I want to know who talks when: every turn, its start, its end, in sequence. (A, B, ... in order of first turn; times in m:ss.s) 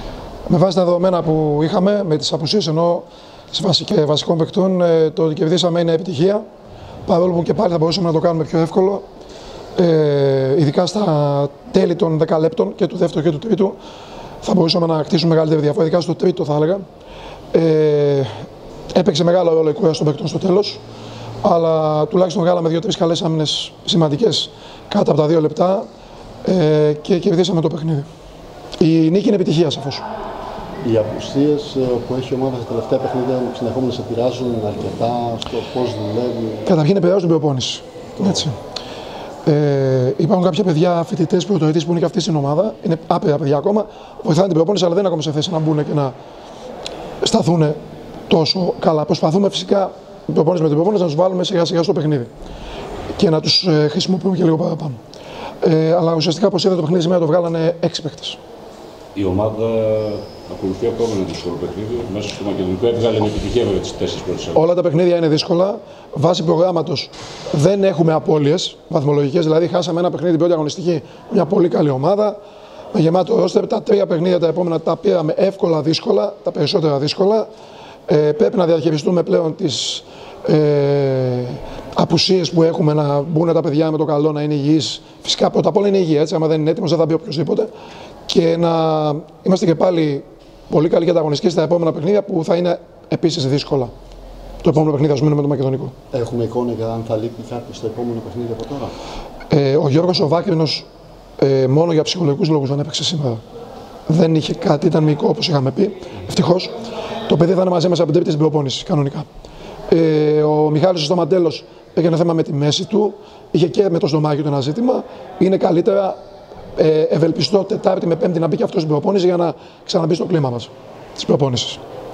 0:00.5-0:06.4 A
0:07.1-0:09.0 A
0:09.8-0:13.8 A
0:14.4-0:16.8 A
0:17.5-0:20.8 A
0:21.4-0:25.9 A
0:26.4-0:28.1 A
0:28.8-0:30.0 A
0:30.8-0:36.7 B
0:36.6-0:38.6 A
0:39.4-0:46.1 A
0:47.2-0:52.3 A
0:53.2-0:55.0 A
0:55.6-0:58.4 A
0:59.2-1:04.6 C
1:04.6-1:12.4 A
1:12.9-1:17.5 A
1:18.1-1:27.7 A
1:28.3-1:33.9 A
1:34.6-1:35.9 A
1:36.1-1:38.9 B
1:39.5-1:40.9 A
1:41.4-1:43.4 A
1:44.1-1:46.7 A
1:47.3-1:49.3 A
1:49.9-1:56.2 A
1:56.8-2:01.8 A